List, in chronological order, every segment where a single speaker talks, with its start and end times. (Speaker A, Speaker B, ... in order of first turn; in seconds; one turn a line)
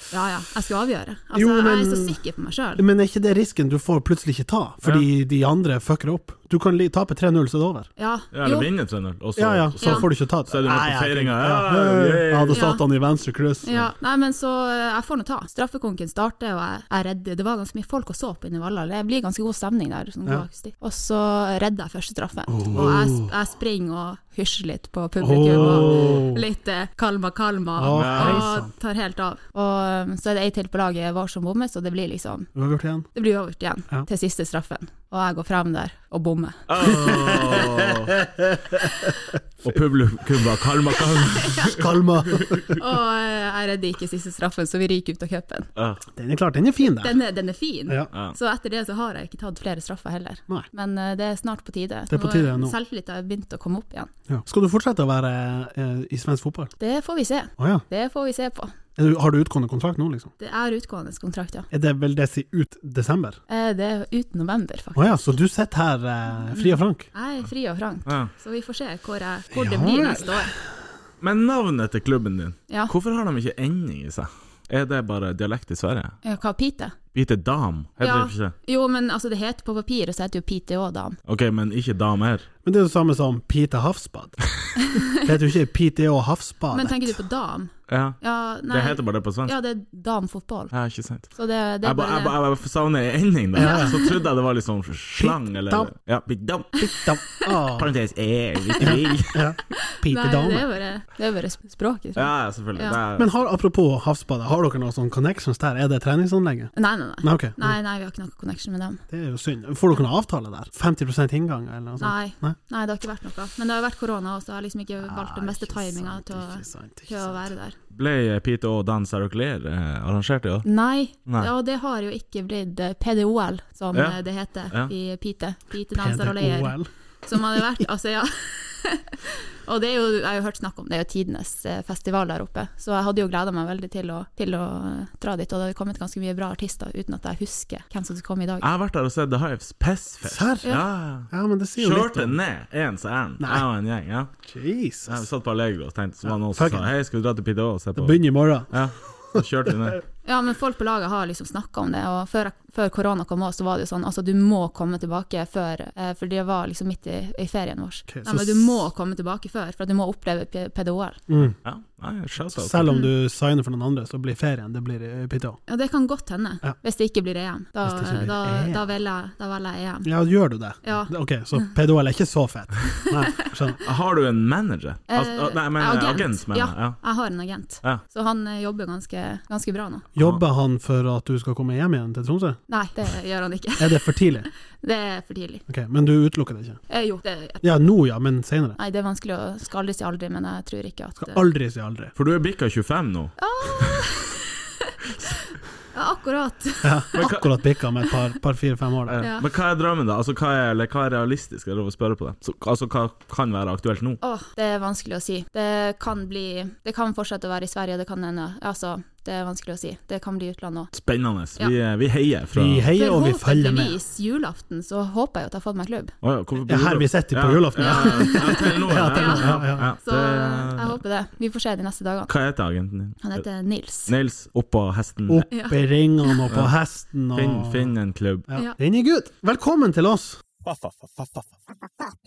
Speaker A: 0.1-2.8
Speaker B: 1.3-2.2
Speaker B: 2.8-7.9
Speaker A: 8.0-8.7
Speaker C: 8.3-12.7
Speaker B: 9.4-13.9
Speaker A: 9.8-10.1
Speaker A: 12.5-12.8
Speaker A: 13.6-32.5
Speaker B: 22.5-23.3
Speaker B: 25.2-26.4
Speaker C: 25.6-26.1
Speaker B: 27.8-28.7
Speaker C: 27.9-28.5
Speaker B: 32.5-33.1
Speaker A: 33.1-36.9
Speaker C: 36.7-38.2
Speaker B: 36.8-38.9
Speaker C: 39.6-42.7
Speaker A: 41.4-41.8
Speaker B: 41.6-42.8
Speaker A: 42.8-45.7
Speaker C: 45.8-46.0
Speaker B: 46.1-47.2
Speaker A: 46.8-54.1
Speaker B: 52.1-52.8
Speaker B: 54.3-56.7
Speaker A: 56.8-58.7
Speaker B: 57.6-57.8
Speaker B: 59.0-60.3
Speaker A: 60.4-61.7
Speaker B: 61.7-63.4
Speaker A: 63.5-65.4
Speaker B: 65.0-67.1
Speaker A: 66.4-70.5
Speaker C: 68.1-68.3
Speaker B: 69.5-70.5
Speaker C: 71.2-76.2
Speaker A: 76.2-77.0
Speaker C: 77.1-78.5
Speaker A: 78.0-81.2
Speaker C: 81.3-82.5
Speaker B: 82.7-84.4
Speaker A: 84.8-85.3
Speaker B: 85.2-87.2
Speaker A: 86.7-90.7
Speaker C: 87.9-89.5
Speaker C: 90.7-96.9
Speaker A: 91.3-92.4
Speaker B: 93.5-94.0
Speaker A: 93.6-94.2
Speaker B: 95.2-95.9
Speaker B: 96.8-97.9
Speaker C: 97.8-99.4
Speaker A: 98.7-99.0
Speaker B: 98.8-100.7
Speaker A: 99.8-103.0
Speaker C: 102.2-103.3
Speaker B: 103.2-107.8
Speaker A: 106.8-109.0
Speaker B: 109.1-112.5
Speaker A: 112.0-117.8
Speaker B: 115.0-117.5
Speaker C: 117.9-120.7
Speaker A: 120.7-138.7
Speaker B: 126.0-126.9
Speaker C: 138.6-144.3
Speaker B: 140.2-140.7
Speaker B: 141.3-142.4
Speaker B: 143.4-143.7
Speaker B: 144.4-145.2
Speaker C: 145.1-150.0
Speaker B: 146.5-146.9
Speaker B: 148.0-148.7
Speaker A: 150.2-161.2
Speaker B: 158.1-158.9
Speaker B: 161.3-161.6
Speaker C: 161.6-162.9
Speaker B: 162.6-165.6
Speaker A: 165.7-170.1
Speaker B: 167.8-168.8
Speaker B: 170.1-173.8
Speaker A: 170.8-171.6
Speaker A: 173.1-173.5
Speaker C: 173.8-177.0
Speaker A: 175.1-180.1
Speaker B: 180.2-182.6
Speaker A: 182.7-184.2
Speaker B: 183.8-184.5
Speaker A: 184.8-185.7
Speaker B: 185.7-186.8
Speaker A: 186.9-187.7
Speaker B: 187.6-188.8
Speaker A: 188.8-191.4
Speaker B: 191.2-192.1
Speaker C: 192.2-194.0
Speaker A: 193.4-195.4
Speaker A: 195.9-197.1
Speaker B: 196.8-199.2
Speaker C: 197.2-197.5
Speaker C: 199.1-204.2
Speaker A: 199.2-199.5
Speaker A: 204.2-210.9
Speaker C: 210.9-212.8
Speaker B: 212.5-214.0
Speaker A: 212.9-216.1
Speaker C: 216.2-221.0
Speaker B: 216.7-219.8
Speaker A: 217.8-222.3
Speaker C: 222.3-223.4
Speaker A: 223.2-224.1
Speaker C: 224.1-225.5
Speaker B: 225.3-227.9
Speaker A: 225.5-226.4
Speaker C: 227.3-228.5
Speaker B: 228.5-230.4
Speaker C: 230.7-231.3